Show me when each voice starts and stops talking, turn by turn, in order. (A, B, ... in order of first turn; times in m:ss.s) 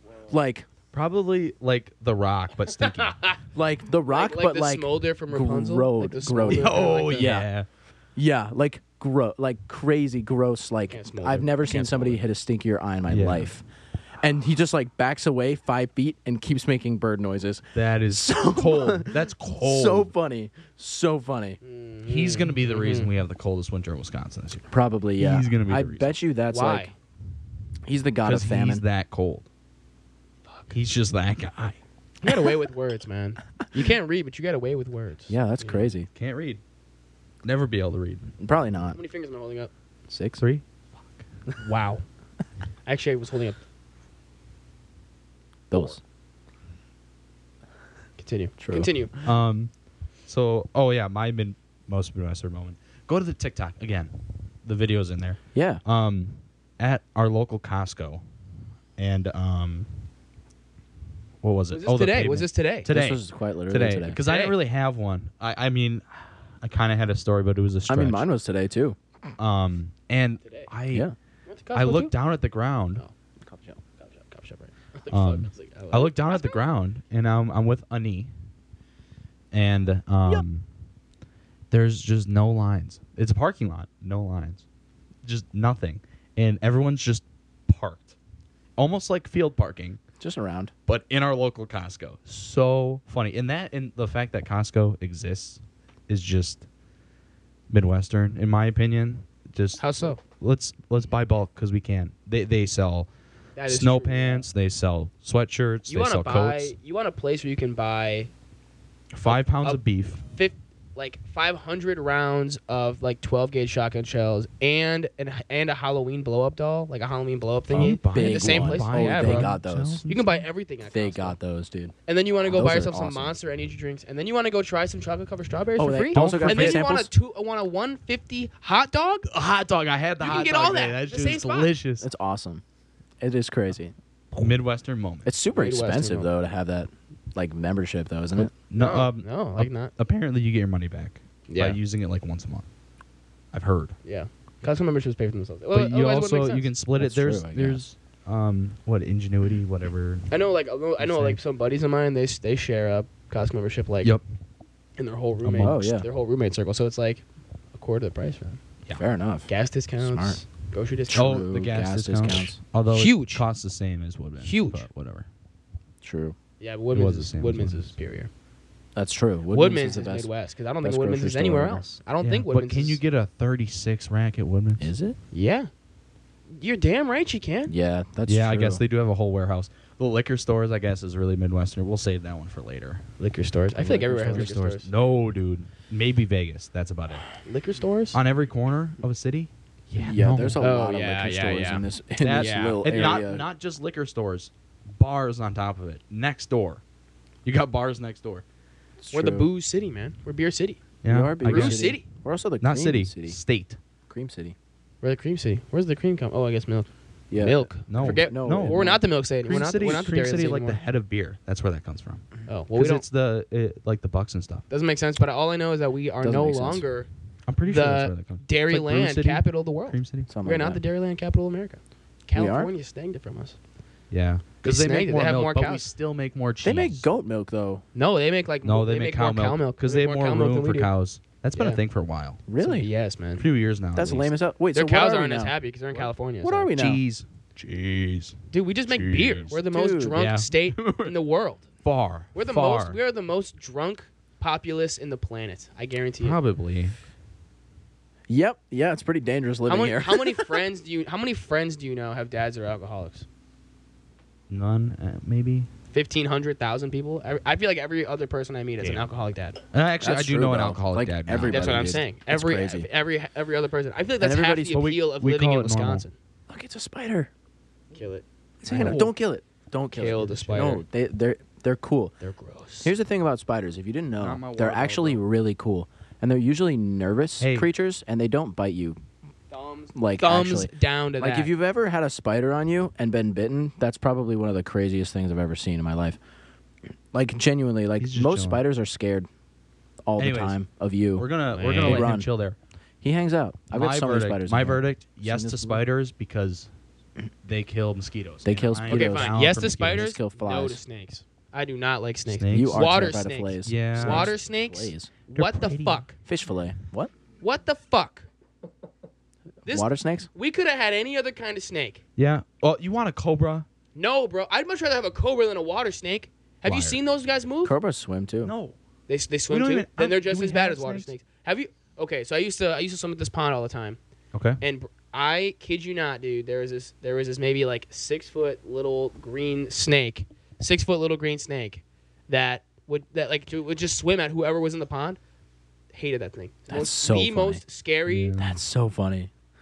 0:00.3-0:00.7 A
0:00.9-0:03.3 B
0:03.0-0:03.4 C
0:03.5-0:07.5 A
0:04.1-0:07.3 C
0:06.5-0:07.7 B
0:08.2-0:13.6 A
0:10.9-0:12.2 C
0:13.1-0:13.5 B
0:14.2-0:21.6 A
0:17.7-0:20.1 B
0:21.6-0:23.1 C
0:22.0-0:26.1 B
0:24.7-0:26.9 A
0:26.5-0:26.9 C
0:27.8-0:28.8 A
0:28.2-0:29.5 B
0:30.5-0:30.7 C
0:30.7-0:31.8 B
0:32.2-0:35.9 C
0:35.3-0:36.1 A
0:36.1-0:36.6 B
0:37.4-0:38.3 B
0:38.4-0:39.0 A
0:38.9-0:39.7 C
0:40.1-0:40.4 A
0:40.4-0:40.6 B
0:41.6-0:42.0 C
0:42.8-0:43.6 C
0:45.7-0:46.0 A
0:48.2-0:49.1 C
0:48.6-0:48.9 A
0:49.2-0:49.7 B
0:50.3-0:58.2 B
0:55.5-0:55.8 A
0:59.0-0:59.9 B
1:01.4-1:06.1 B
1:01.7-1:02.9 C
1:02.9-1:04.2 A
1:04.2-1:04.6 C
1:06.6-1:08.3 B
1:07.9-1:09.0 A
1:09.4-1:11.1 B
1:10.4-1:10.7 C
1:11.5-1:12.1 C
1:11.7-1:13.0 B
1:13.4-1:13.8 A
1:13.9-1:16.6 C
1:15.1-1:18.3 B
1:19.5-1:20.6 B
1:21.7-1:24.6 B
1:25.2-1:28.2 B
1:28.8-1:30.0 B
1:30.2-1:30.7 A
1:30.9-1:36.6 B
1:37.7-1:43.1 B
1:39.8-1:40.2 C
1:43.6-1:44.5 C
1:43.7-1:46.7 B
1:45.9-1:48.3 C
1:49.1-1:50.2 B
1:49.2-1:59.5 C
1:57.7-2:00.4 B
1:57.8-2:00.0 A
2:00.1-2:01.4 C
2:00.8-2:01.9 A
2:02.0-2:09.3 C
2:02.4-2:03.3 A
2:05.8-2:07.1 A
2:06.1-2:06.8 B
2:09.3-2:12.1 B
2:10.2-2:11.7 C
2:12.0-2:12.6 A
2:13.2-2:14.4 A
2:14.4-2:15.3 B
2:15.2-2:18.5 A
2:15.5-2:16.3 C
2:18.5-2:22.7 B
2:18.8-2:19.9 C
2:21.5-2:21.8 C
2:23.5-2:24.0 B
2:24.0-2:26.7 C
2:25.7-2:30.3 B
2:27.0-2:27.8 A
2:30.3-2:34.1 C
2:31.0-2:31.4 B
2:35.0-2:38.6 C
2:35.4-2:35.8 B
2:35.6-2:36.0 A
2:38.9-2:40.4 A
2:39.5-2:41.4 C
2:41.1-2:42.6 A
2:41.1-2:45.3 B
2:42.9-2:43.4 C
2:44.4-2:44.9 C
2:46.0-2:46.4 A
2:46.6-2:48.3 C
2:46.9-2:47.9 B
2:48.9-2:50.3 A
2:49.5-2:53.0 C
2:50.8-2:51.9 A
2:52.2-2:54.9 B
2:54.8-2:55.2 A
2:55.3-2:55.7 C
2:56.5-2:57.7 C
2:57.6-2:58.8 A
2:58.2-3:03.0 B
3:03.2-3:04.9 C
3:03.8-3:04.5 A
3:04.3-3:07.3 B
3:07.4-3:08.2 C
3:08.1-3:10.6 B
3:09.9-3:13.4 A
3:10.6-3:13.2 C
3:12.2-3:16.8 B
3:17.4-3:18.4 B
3:19.0-3:19.5 A
3:19.1-3:20.8 C
3:21.0-3:22.0 B
3:21.0-3:23.4 A
3:21.4-3:22.0 C
3:22.6-3:23.8 B
3:24.1-3:24.6 A
3:25.0-3:30.8 C
3:27.3-3:29.0 A
3:27.9-3:28.8 B
3:29.4-3:34.6 B
3:32.5-3:33.0 C
3:34.7-3:37.1 C
3:36.2-3:36.8 A
3:37.5-3:40.3 B
3:37.6-3:43.6 C
3:40.3-3:40.8 A
3:42.3-3:42.7 A
3:44.1-3:47.0 B
3:44.6-3:45.8 C
3:46.6-3:47.8 A
3:47.9-3:50.9 C
3:48.6-3:52.4 B
3:52.5-3:52.9 A
3:52.6-3:53.4 C
3:53.4-3:54.3 B
3:53.9-3:55.5 A
3:54.7-3:56.7 C
3:56.4-3:57.0 A
3:56.8-3:59.6 B
3:58.5-4:01.6 C
3:59.6-4:00.2 A
4:00.2-4:01.1 B
4:01.8-4:03.0 B
4:02.3-4:06.4 C
4:06.2-4:07.0 B
4:08.3-4:10.5 A
4:09.7-4:13.2 C
4:14.5-4:15.7 B
4:15.9-4:19.6 C
4:18.8-4:19.1 B
4:19.7-4:22.0 B
4:20.0-4:22.9 A
4:21.4-4:26.1 C
4:24.2-4:24.8 A
4:24.7-4:26.0 B
4:26.5-4:27.3 A
4:27.9-4:29.0 C
4:28.6-4:32.1 A
4:28.7-4:29.1 B
4:29.9-4:30.8 C
4:30.3-4:30.7 B
4:32.2-4:32.9 C
4:32.8-4:39.0 A
4:34.2-4:35.2 B
4:37.4-4:37.7 B
4:39.5-4:41.5 C
4:39.9-4:46.2 A
4:47.1-4:49.3 A
4:48.0-4:48.6 B
4:50.0-4:52.3 A
4:50.2-4:50.6 B
4:51.2-4:52.6 B
4:51.5-4:52.1 C
4:53.0-4:55.8 A
4:53.7-4:56.7 B
4:57.4-5:00.1 B
4:58.4-5:00.8 A
4:58.9-5:06.2 C
5:02.3-5:02.8 B
5:02.5-5:05.1 A
5:03.6-5:04.3 B
5:05.3-5:06.0 B
5:06.2-5:07.1 A
5:07.4-5:08.3 C
5:09.6-5:12.0 C
5:09.7-5:10.3 A
5:12.2-5:13.6 B
5:13.9-5:17.7 C
5:16.6-5:17.0 B
5:17.6-5:18.5 A
5:18.4-5:18.8 B
5:19.1-5:24.0 C
5:19.5-5:21.1 B
5:24.3-5:24.6 B
5:24.6-5:35.2 C
5:35.9-5:38.3 C
5:36.7-5:37.6 A
5:38.1-5:38.6 B
5:38.4-5:39.3 A